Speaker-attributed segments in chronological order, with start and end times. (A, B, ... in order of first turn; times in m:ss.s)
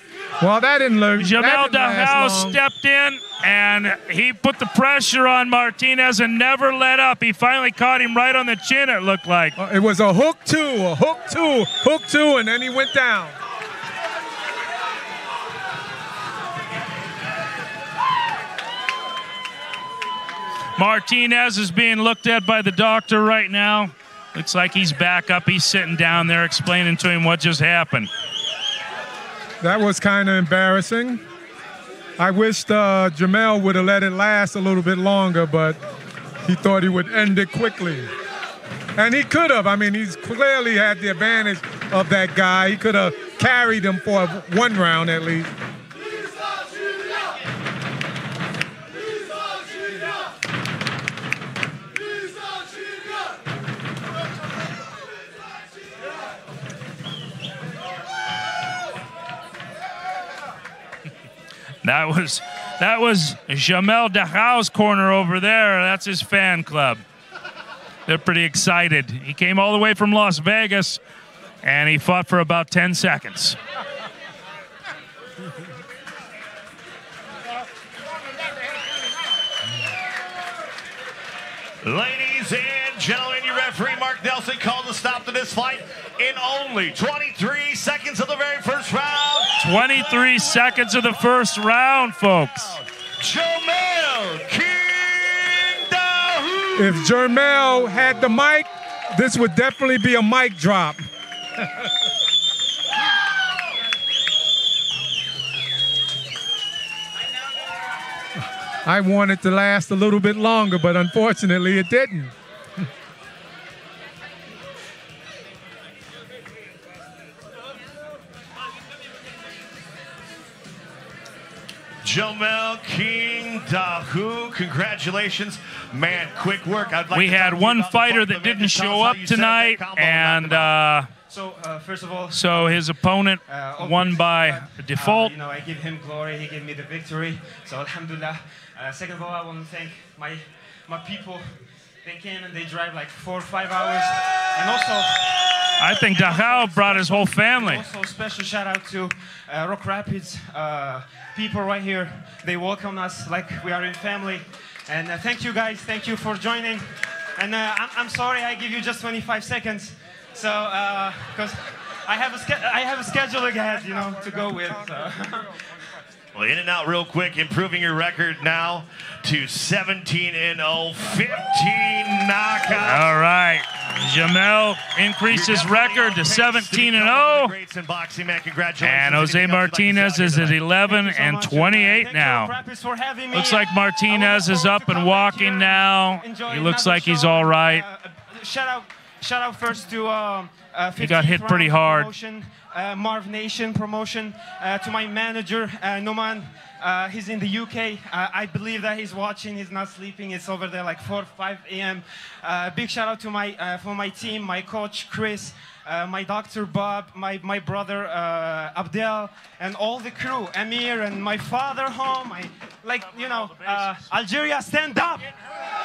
0:00.4-0:02.6 A
0:01.2-0:09.6 B
0:09.6-0:13.4 A
0:20.8-0:28.1 B
0:29.6-0:31.2 A
0:32.2-0:35.8 A
0:36.4-0:38.1 A
0:39.0-0:45.5 A
1:01.8-1:07.0 B
1:08.0-1:11.0 B
1:11.6-1:13.6 B
1:21.8-1:30.8 C
1:29.6-1:32.8 B
1:32.6-1:37.1 C
1:36.8-1:41.0 A
1:48.8-1:52.3 A
2:02.0-2:10.7 C
2:07.1-2:11.1 B
2:11.3-2:12.8 D
2:12.3-2:15.3 B
2:13.4-2:45.6 D
2:25.8-2:27.8 B
2:46.3-2:53.1 C
2:52.8-2:57.5 B
2:55.3-3:00.6 C
2:58.8-3:02.5 B
3:00.8-3:35.3 D
3:03.3-3:07.8 B
3:11.0-3:12.1 B